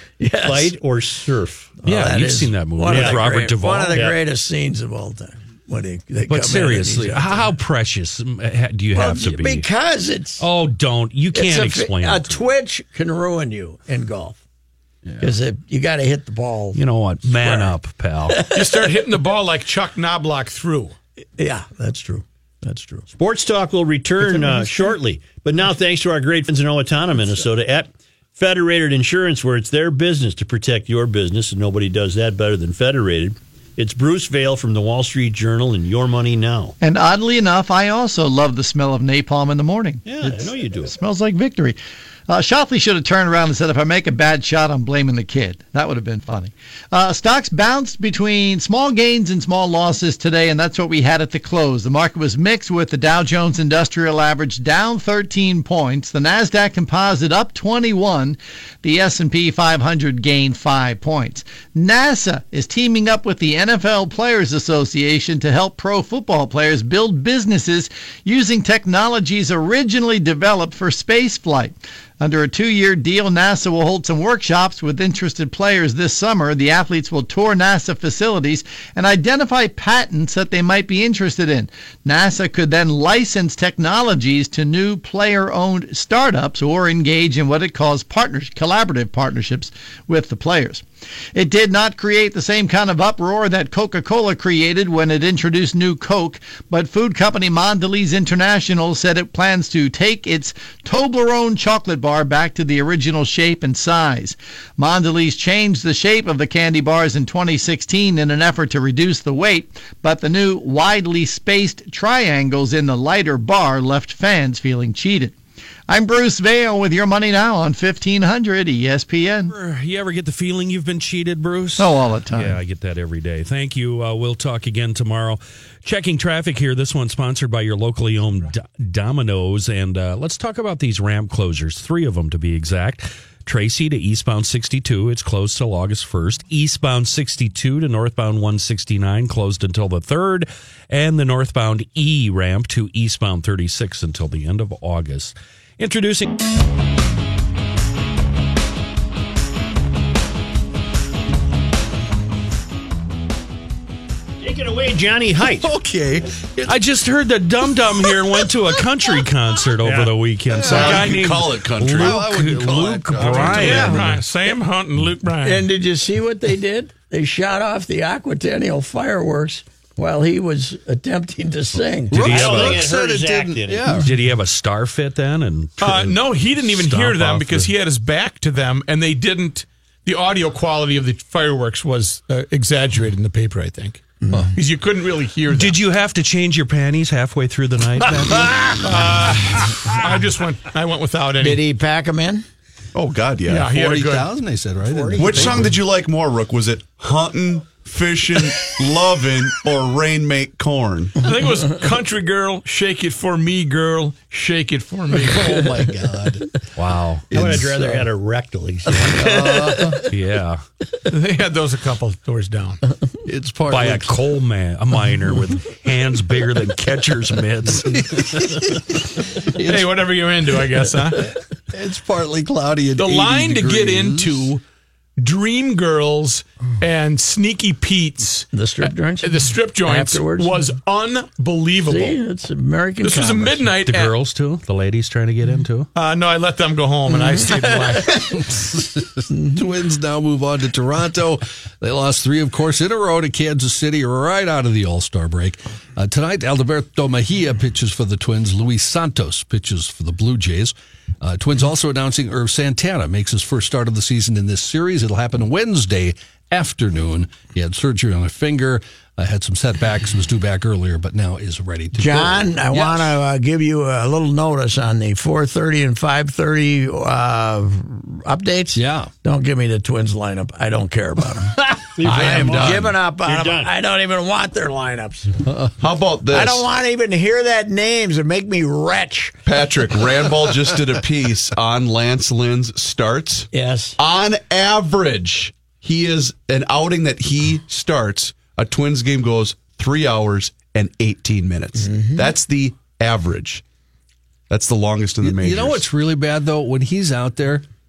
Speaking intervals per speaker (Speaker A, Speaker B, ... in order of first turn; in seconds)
Speaker A: 0.2-0.8, 1.8-7.5, 8.9-10.5, 11.3-14.4, 15.2-16.8, 17.3-17.8, 18.3-18.9, 21.4-23.1, 24.2-24.9, 163.2-164.1, 165.4-172.4, 184.2-184.5, 191.4-192.4, 195.1-195.6, 209.1-210.0, 228.5-230.6, 231.9-233.7, 237.1-237.5, 261.9-275.4, 276.3-279.4, 283.5-284.0
Speaker B: 0.4-1.8, 2.9-3.3, 3.9-4.2, 23.1-36.8, 40.0-40.9, 154.4-155.7, 159.8-160.1, 172.2-173.9, 207.3-209.1, 271.9-273.7
Speaker C: 1.8-4.0, 6.3-9.7, 10.4-12.4, 16.8-18.5, 119.5-146.4, 156.7-163.8, 172.3-172.6, 173.9-177.7, 185.5-188.6, 206.8-207.3, 210.1-210.6, 213.7-218.4, 233.8-235.9
Speaker D: 18.5-20.9, 163.5-165.7, 175.8-185.8, 188.8-191.6, 193.5-194.3, 201.2-205.8, 211.1-212.8, 219.5-221.3, 223.0-224.6, 225.2-228.5, 229.2-232.2, 233.0-234.1, 235.9-238.3
Speaker E: 36.8-41.8, 42.3-90.8, 91.3-115.3, 115.9-119.5, 121.8-122.6
Speaker F: 155.6-156.8, 158.0-158.5, 160.5-161.1, 161.9-164.2, 172.1-174.2, 193.7-195.8, 205.2-206.6, 207.3-208.0, 209.0-210.1, 213.2-214.2, 218.1-218.5, 219.6-219.9, 221.7-224.5, 238.3-263.1, 268.7-269.1, 295.2-297.6
Speaker G: 160.5-162.3, 163.1-163.8, 192.9-193.7, 195.2-201.2, 272.1-272.9, 275.8-276.7, 279.4-293.6, 294.5-295.9